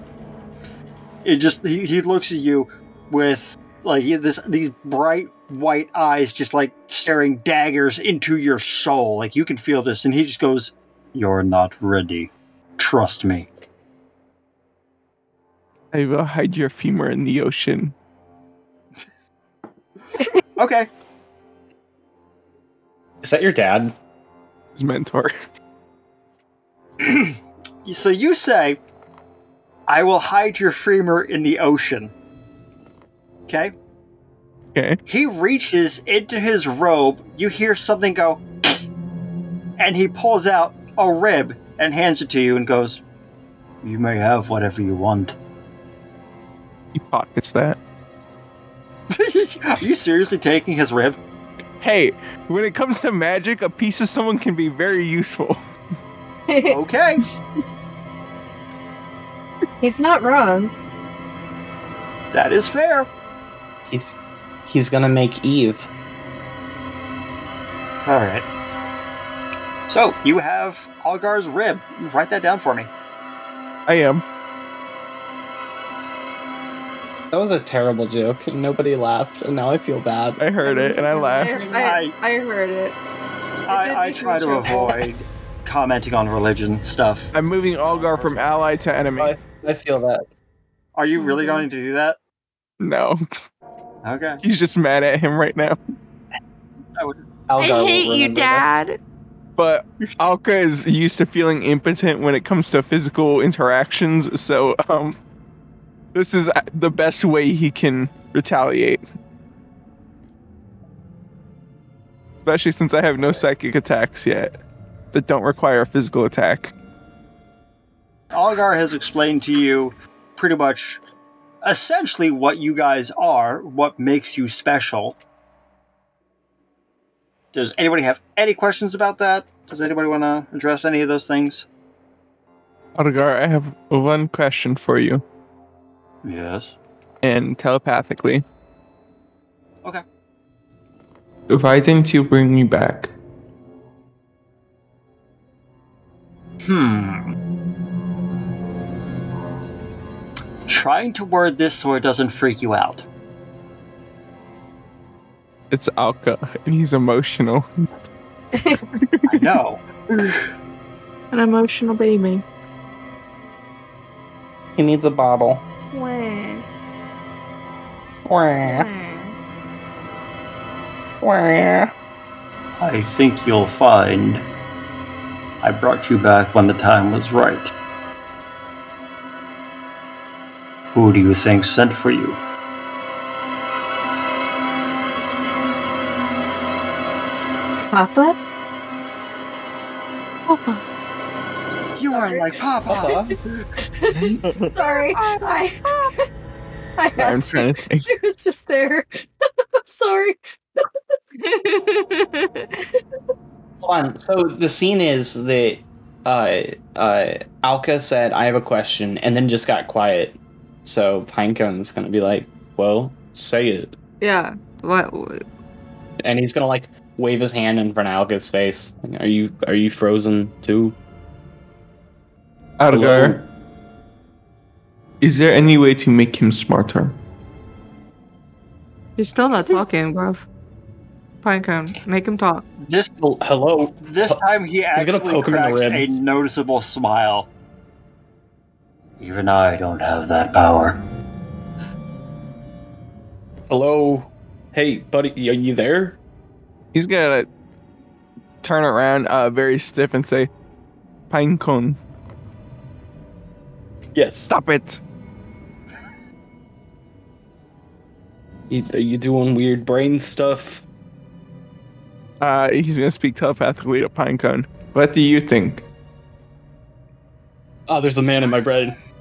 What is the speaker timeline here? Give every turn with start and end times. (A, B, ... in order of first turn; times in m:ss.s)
0:01.2-0:13.5 A
0:15.9-0:17.9 B
0:20.6-0:20.9 A
0:23.2-0:23.9 C
0:24.7-0:25.3 B
0:27.0-0:28.8 A
0:29.9-0:32.1 A
0:33.5-0:33.7 A
0:35.1-0:38.8 A
0:39.8-0:43.0 A
0:43.8-0:45.4 A
0:46.9-0:47.8 B
0:49.1-0:51.2 A
0:51.8-0:55.6 B
0:56.5-0:56.8 D
0:56.7-0:57.2 A
0:59.8-1:00.7 D
1:02.3-1:03.1 A
1:03.9-1:05.9 C
1:08.0-1:08.5 A
1:09.9-1:12.9 A
1:13.9-1:14.2 B
1:17.3-1:20.4 C
1:20.4-1:21.7 B
1:21.2-1:21.7 D
1:21.2-1:23.0 E
1:21.8-1:22.1 A
1:23.7-1:28.5 A
1:23.7-1:25.0 E
1:27.3-1:29.4 B
1:29.2-1:30.3 C
1:31.0-1:32.2 A
1:32.8-1:33.2 B
1:34.0-1:34.4 A
1:34.4-1:35.8 B
1:37.0-1:37.2 A
1:37.5-1:38.8 C
1:37.6-1:39.0 E
1:39.6-1:45.2 B
1:46.1-1:49.0 B
1:52.4-1:54.6 B
1:55.1-1:56.7 B
1:58.3-2:01.0 A
2:01.6-2:05.2 A
2:07.5-2:11.7 A
2:13.0-2:15.2 B
2:16.2-2:16.8 A
2:17.2-2:18.4 B
2:21.5-2:23.1 B
2:26.6-2:27.3 A
2:30.7-2:33.0 A
2:35.7-2:37.7 B
2:39.0-2:39.6 B
2:39.3-2:40.4 A
2:41.3-2:42.4 E
2:44.8-2:45.6 C
2:45.9-2:46.6 E
2:48.2-2:48.9 C
2:48.6-2:49.4 E
2:51.2-2:51.9 C
2:52.8-2:54.4 A
2:55.6-2:57.7 A
3:00.9-3:02.4 A
3:07.9-3:08.4 D
3:10.5-3:10.8 E
3:12.0-3:13.6 A
3:12.1-3:12.4 D
3:12.9-3:13.4 C
3:13.9-3:16.2 D
3:14.8-3:15.7 E
3:17.0-3:19.2 D
3:17.2-3:18.1 B
3:19.8-3:20.9 D
3:21.4-3:22.7 E
3:23.8-3:33.9 C
3:34.2-3:35.4 E
3:36.2-3:41.0 C
3:42.8-3:43.4 B
3:42.9-3:43.4 C
3:45.2-3:47.2 B
3:49.2-3:50.4 E
3:51.4-3:52.7 E
3:52.8-3:53.1 A
3:53.2-3:54.4 C
3:54.0-3:57.5 A
3:55.0-3:56.2 C
3:59.2-4:01.0 A
4:03.7-4:06.2 C
4:06.9-4:07.5 B
4:08.6-4:10.5 B
4:11.3-4:12.0 B
4:14.2-4:14.5 C
4:14.5-4:15.0 B
4:18.7-4:20.8 C
4:22.4-4:25.8 B
4:27.9-4:29.0 C